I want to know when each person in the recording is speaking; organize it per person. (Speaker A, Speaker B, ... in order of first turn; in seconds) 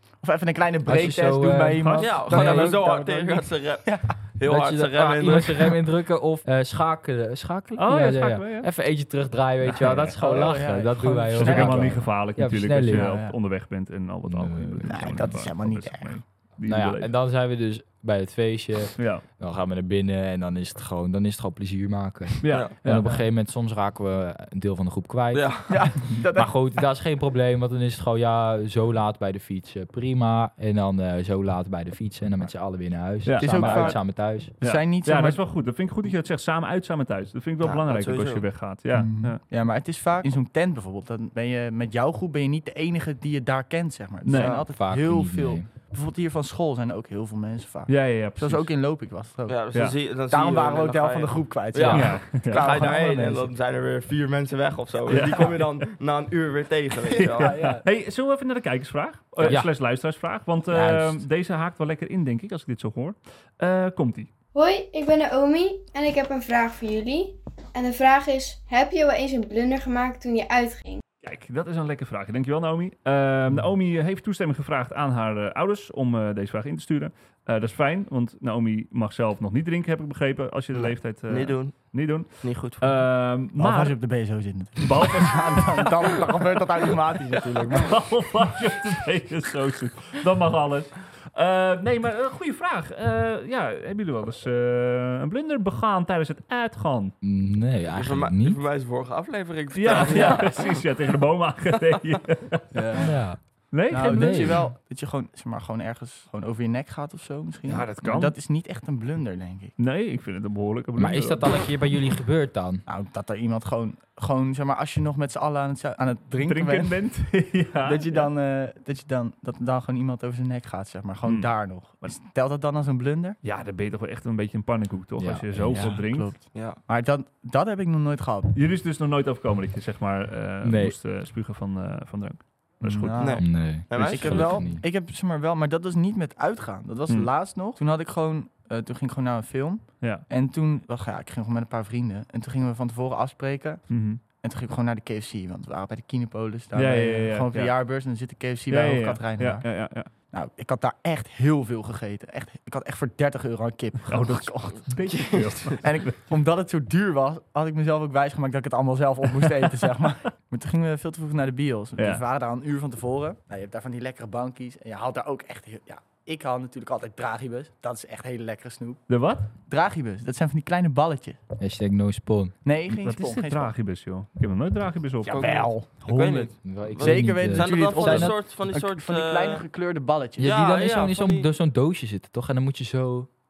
Speaker A: 0.2-4.1, 10.2-12.0, 12.9-13.3, 14.8-16.1, 25.7-26.5, 33.4-35.4, 38.9-49.6, 50.3-53.5, 57.1-57.8, 83.6-88.0, 102.7-103.1, 103.9-109.7, 112.9-117.0, 117.8-123.4, 125.7-128.5, 132.8-169.1, 169.7-171.4, 172.6-173.7, 175.2-180.5
Speaker B: 0.8-2.8, 4.4-13.1, 14.3-15.2, 16.6-34.5, 44.6-45.7, 51.8-52.1, 59.4-59.7, 60.7-61.2, 97.2-98.6, 103.0-103.4, 103.9-104.6, 111.0-112.8, 125.2-126.0, 130.6-130.9, 133.4-134.8, 171.6-172.5, 176.6-178.4, 180.4-183.3
Speaker C: 1.8-2.2, 7.8-8.7, 9.6-10.2, 11.3-17.1, 19.0-19.2, 22.4-23.2, 33.2-39.4, 44.2-44.6, 47.9-48.7, 51.9-52.7, 55.1-55.9, 57.2-64.3, 71.2-84.0, 84.8-86.2, 87.7-97.1, 99.7-103.0, 103.7-104.7, 107.7-108.3, 109.8-111.7, 116.4-118.3, 121.2-121.5, 123.4-126.3, 128.5-133.3, 143.9-144.2, 146.7-147.8, 148.7-150.1, 154.1-156.1, 162.0-162.2, 169.1-169.5, 172.9-175.6
Speaker D: 2.0-5.8, 25.3-25.8, 37.6-38.4, 44.3-44.6, 49.5-57.5, 81.3-82.9, 97.9-100.8, 126.5-126.8, 133.2-134.7, 155.1-155.5, 175.3-179.6, 180.4-181.5
Speaker E: 64.5-71.0